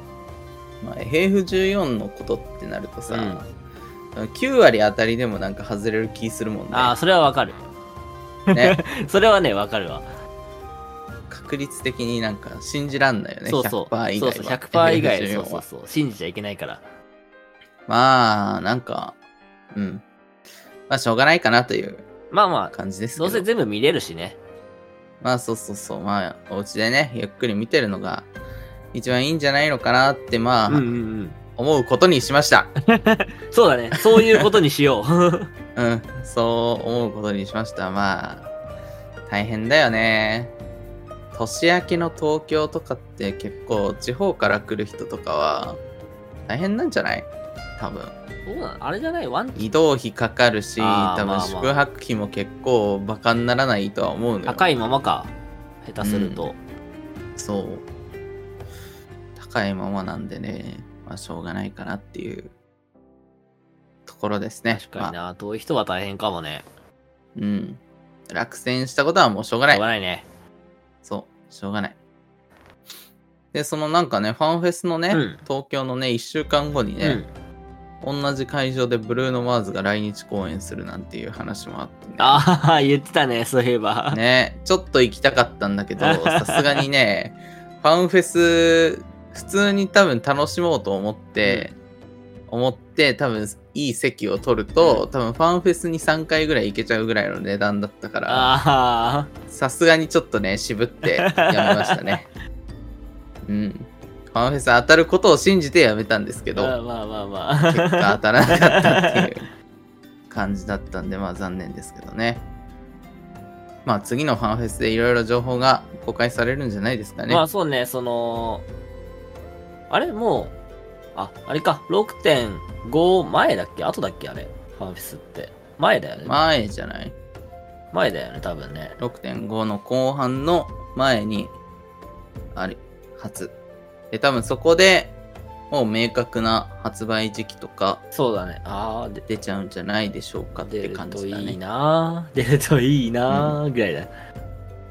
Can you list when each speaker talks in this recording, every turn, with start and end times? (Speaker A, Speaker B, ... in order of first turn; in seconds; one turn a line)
Speaker A: 0.8-3.4
Speaker B: 3.1-3.4
Speaker A: 4.1-6.9
Speaker B: 6.7-7.6
Speaker B: 8.5-10.1
Speaker A: 8.5-8.8
Speaker A: 11.3-15.7
Speaker B: 13.4-16.8
Speaker A: 17.9-19.2
Speaker A: 19.7-20.0
Speaker A: 20.9-22.0
Speaker B: 22.3-24.4
Speaker A: 22.7-23.5
Speaker A: 25.2-28.3
Speaker A: 28.9-30.9
Speaker B: 30.7-31.4
Speaker A: 31.6-32.7
Speaker B: 32.9-35.5
Speaker A: 35.8-38.5
Speaker A: 39.3-40.5
Speaker A: 41.3-45.8
Speaker A: 46.5-48.1
Speaker B: 48.5-49.7
Speaker A: 49.5-54.6
Speaker B: 50.8-51.8
Speaker B: 54.5-56.6
Speaker A: 56.0-56.5
Speaker A: 57.4-57.9
Speaker A: 59.4-62.5
Speaker A: 64.0-65.1
Speaker B: 64.7-66.6
Speaker A: 67.3-69.8
Speaker B: 69.7-70.2
Speaker A: 71.0-72.0
Speaker A: 73.5-77.2
Speaker B: 75.1-75.4
Speaker B: 77.0-77.3
Speaker A: 78.0-82.4
Speaker B: 82.2-84.2
Speaker A: 84.1-91.7
Speaker B: 86.0-86.8
Speaker B: 91.4-91.7
Speaker A: 92.5-98.5
Speaker B: 94.8-95.0
Speaker B: 98.3-99.3
Speaker A: 99.5-102.3
Speaker B: 101.1-102.2
Speaker A: 103.4-106.8
Speaker B: 106.5-109.3
Speaker A: 107.7-109.5
Speaker A: 110.3-112.4
Speaker A: 113.8-117.4
Speaker B: 117.3-118.7
Speaker B: 119.9-120.5
Speaker B: 121.1-126.4
Speaker A: 126.2-127.1
Speaker B: 127.9-129.0
Speaker A: 129.0-131.5
Speaker A: 132.5-133.5
Speaker A: 134.1-135.1
Speaker A: 135.7-138.0
Speaker B: 138.1-139.2
Speaker A: 139.3-141.6
Speaker B: 140.6-144.1
Speaker A: 143.3-143.6